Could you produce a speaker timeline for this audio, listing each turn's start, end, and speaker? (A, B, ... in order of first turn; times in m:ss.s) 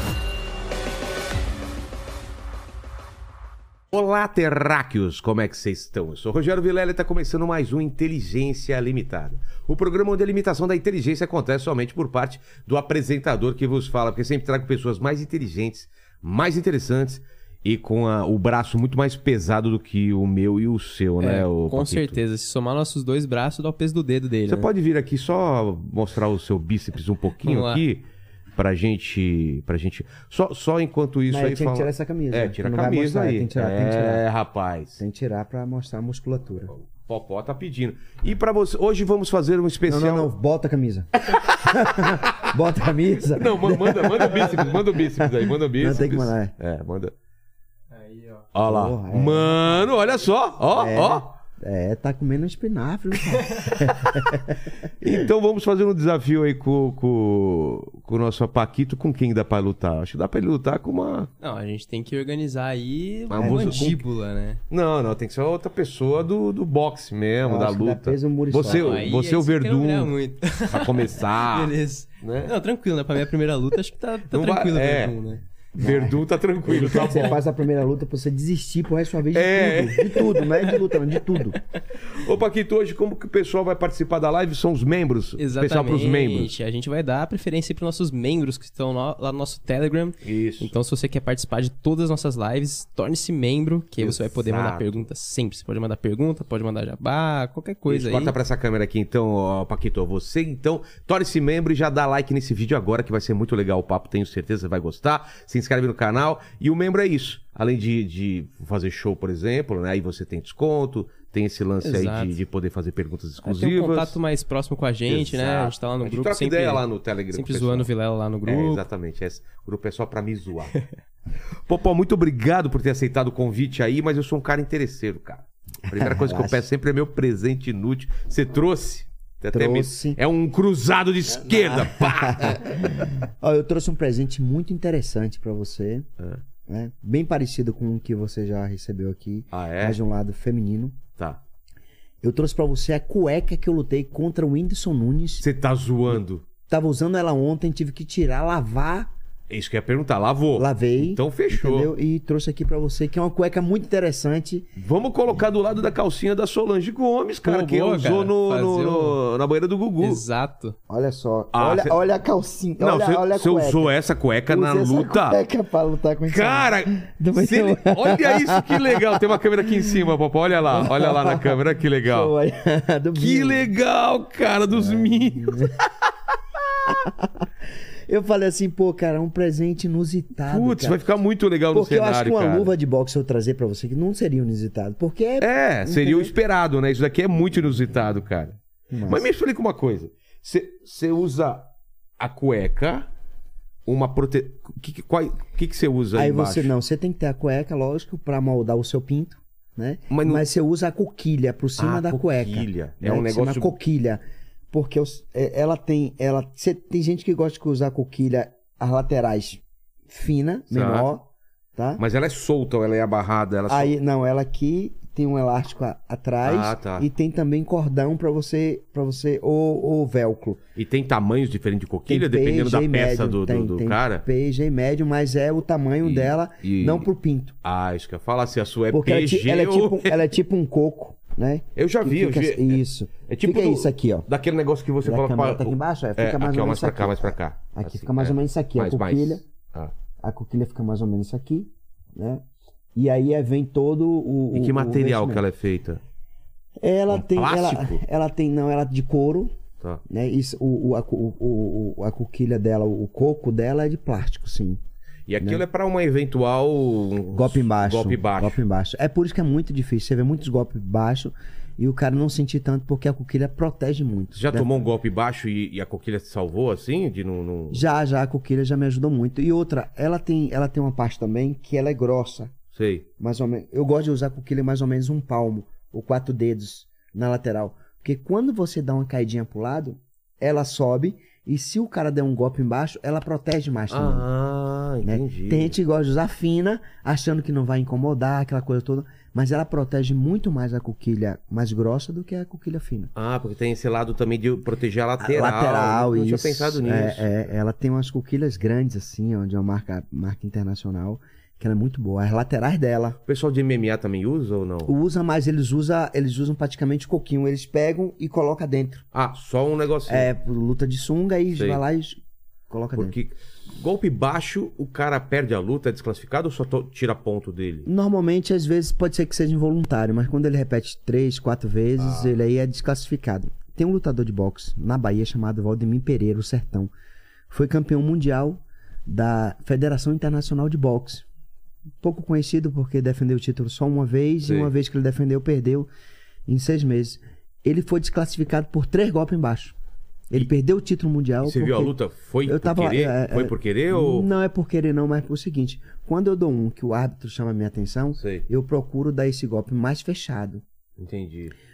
0:03.9-0:22.2 A
0:21.2-0:24.7 B
0:24.5-0:28.0 A
0:27.4-0:27.8 B
0:28.6-0:35.0 A
0:31.3-0:34.2 C
0:35.0-0:36.7 C
0:36.7-0:40.3 A
0:39.8-0:41.1 C
0:41.3-0:42.5 A
0:41.6-0:46.5 C
0:43.3-0:47.1 A
0:47.9-0:48.5 B
0:48.5-0:51.3 A
0:48.6-0:49.9 C
0:50.7-0:55.2 C
0:53.9-0:54.2 A
0:55.0-1:01.3 A
1:01.4-1:04.6 B
1:03.3-1:04.0 A
1:03.4-1:03.9 C
1:04.7-1:10.1 A
1:07.4-1:09.1 C
1:08.7-1:15.4 B
1:10.6-1:12.5 A
1:14.3-1:15.2 A
1:15.8-1:21.6 C
1:15.8-1:17.4 A
1:19.3-1:26.5 A
1:25.4-1:38.3 B
1:30.2-1:30.7 A
1:34.0-1:35.0 A
1:37.9-1:54.2 A
1:51.8-1:52.3 B
1:53.4-1:58.8 B
1:55.1-1:57.9 A
1:58.4-2:00.8 A
2:01.6-2:13.1 A
2:05.8-2:06.6 C
2:09.5-2:10.2 C
2:11.4-2:16.1 C
2:16.7-2:21.0 C
2:19.5-2:20.0 A
2:21.2-2:21.4 A
2:22.2-2:25.4 C
2:25.4-2:26.4 A
2:26.7-2:29.1 C
2:29.5-2:31.9 A
2:30.5-2:34.7 C
2:34.8-2:40.2 A
2:37.4-2:39.2 B
2:40.0-2:40.8 B
2:40.9-2:43.9 C
2:41.5-2:42.0 A
2:42.8-2:45.4 A
2:44.5-2:50.1 C
2:46.3-2:52.3 A
2:50.7-2:53.7 C
2:53.2-2:56.1 A
2:54.7-2:55.7 C
2:56.8-2:57.5 C
2:58.1-3:01.0 C
3:00.5-3:02.7 A
3:01.7-3:06.3 C
3:05.4-3:13.1 A
3:08.9-3:09.2 C
3:13.8-3:16.7 A
3:16.1-3:32.0 C
3:20.1-3:20.4 A
3:21.8-3:23.7 A
3:30.7-3:31.1 A
3:32.0-3:33.9 A
3:33.7-3:40.6 C
3:36.4-3:37.0 A
3:40.8-3:44.2 A
3:42.1-3:47.6 C
3:46.0-3:47.1 A
3:47.6-3:50.2 A
3:48.9-3:54.3 C
3:51.8-3:59.9 A
3:55.0-3:59.4 C
4:00.2-4:05.4 C
4:04.5-4:06.0 A
4:06.8-4:09.5 C
4:07.1-4:08.0 A
4:10.1-4:14.8 C
4:15.3-4:18.6 A
4:17.3-4:24.7 C
4:24.3-4:27.8 A
4:27.7-4:32.5 C
4:32.7-4:33.1 A
4:33.2-4:44.3 C
4:43.9-4:45.8 A
4:45.0-4:53.1 C
4:53.2-4:57.5 A
4:55.2-5:03.2 C
5:03.3-5:04.9 A
5:04.8-5:09.0 C
5:09.1-5:10.3 A
5:10.1-5:12.2 C
5:11.5-5:11.8 A
5:12.7-5:13.1 C
5:12.9-5:17.9 A
5:17.8-5:26.9 C
5:22.0-5:22.3 A
5:27.5-5:31.2 C
5:32.0-5:35.9 C
5:34.4-5:34.7 A
5:36.5-5:39.7 C
5:40.3-5:50.6 C
5:41.4-5:44.3 A
5:48.2-5:48.4 A
5:51.0-5:51.5 A